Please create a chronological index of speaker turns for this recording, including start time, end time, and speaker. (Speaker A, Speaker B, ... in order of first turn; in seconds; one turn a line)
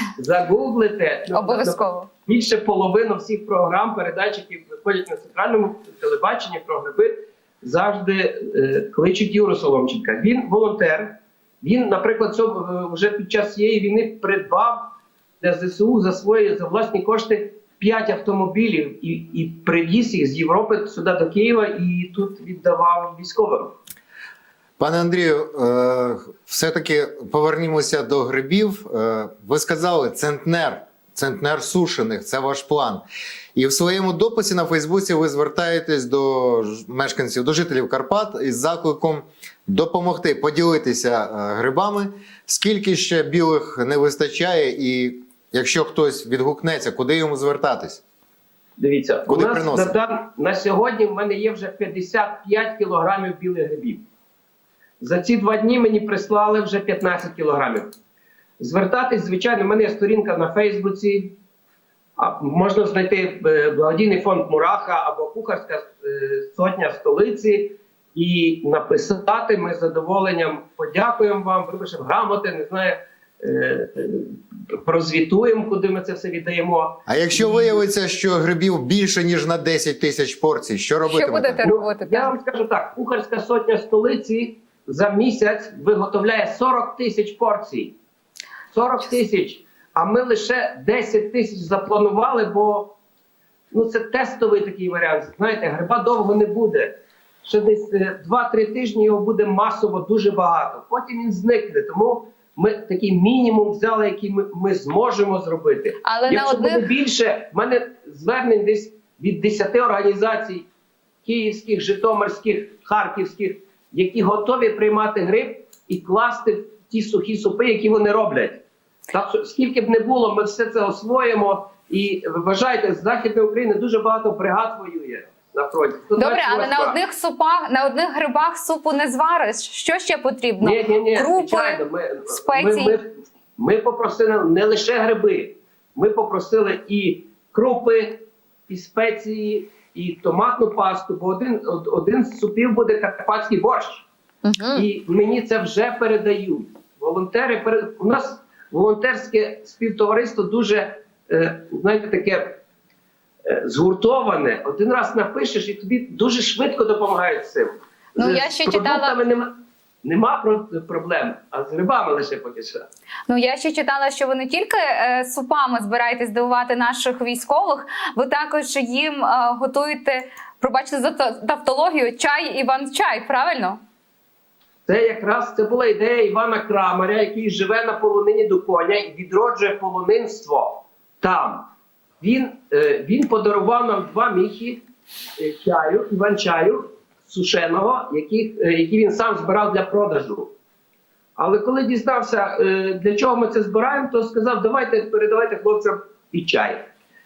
Speaker A: 0.2-14.9
Speaker B: 1.3-2.1
Speaker A: 15.4-23.7
Speaker C: 24.8-33.0
Speaker C: 33.6-48.0
Speaker A: 48.8-54.0
Speaker C: 49.3-49.9
Speaker A: 55.0-57.9
Speaker A: 58.6-61.4
Speaker A: 62.2-77.8
Speaker C: 77.1-81.6
Speaker B: 81.1-82.4
Speaker A: 81.6-88.0
Speaker A: 88.7-92.9
Speaker A: 93.7-110.7
Speaker B: 106.0-106.8
Speaker A: 111.2-127.0
Speaker B: 126.2-133.0
Speaker A: 130.6-144.1
Speaker B: 144.4-144.9
Speaker A: 144.7-152.6
Speaker A: 153.4-162.9
Speaker B: 158.2-159.1
Speaker B: 163.3-173.8
Speaker A: 174.9-181.7
Speaker A: 182.2-184.8
Speaker A: 185.4-190.5
Speaker A: 191.4-196.9